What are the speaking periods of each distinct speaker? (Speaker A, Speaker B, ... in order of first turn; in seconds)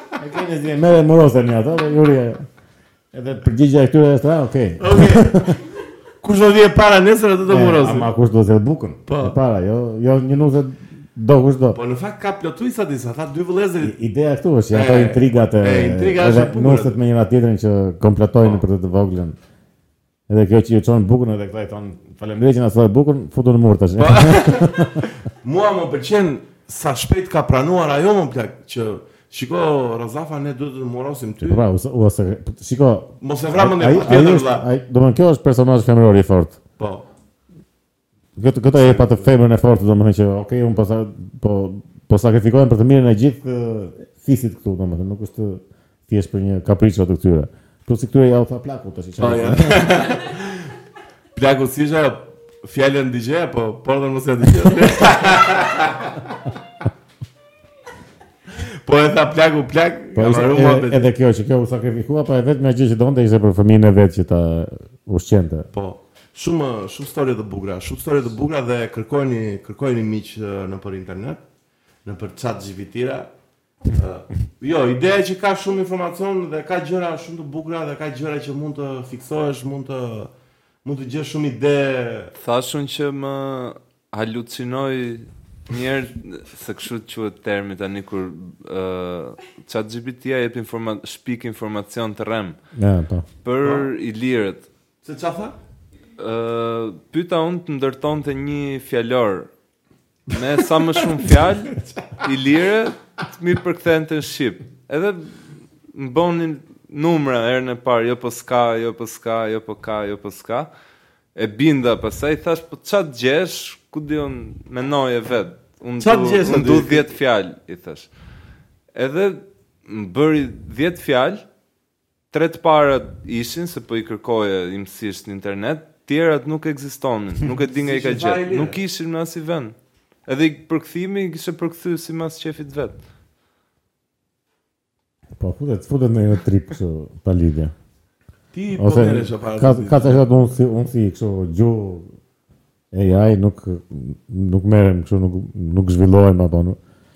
Speaker A: 0.1-2.5, 3.1-5.6, 7.5-11.8, 13.8-19.4, 20.3-25.1, 31.4-36.6, 38.4-50.0, 60.1-65.7, 92.8-93.2, 135.4-137.7, 138.8-142.1, 142.9-146.8
Speaker B: 4.8-5.5, 6.2-8.1, 9.1-9.4, 11.7-14.0, 14.7-16.9, 24.0-31.6, 33.2-34.7, 36.8-37.0, 38.7-39.4, 49.2-50.7, 51.3-56.3, 58.5-61.1, 65.7-71.4, 72.0-73.3, 73.9-80.3, 80.8-82.3, 93.6-93.9, 95.0-95.5, 116.0-117.1, 127.7-128.8, 138.5-140.2
Speaker C: 82.4-92.6, 93.4-94.6, 96.2-99.5, 100.3-110.7, 111.3-118.1, 118.9-121.4, 122.3-129.8, 130.3-133.0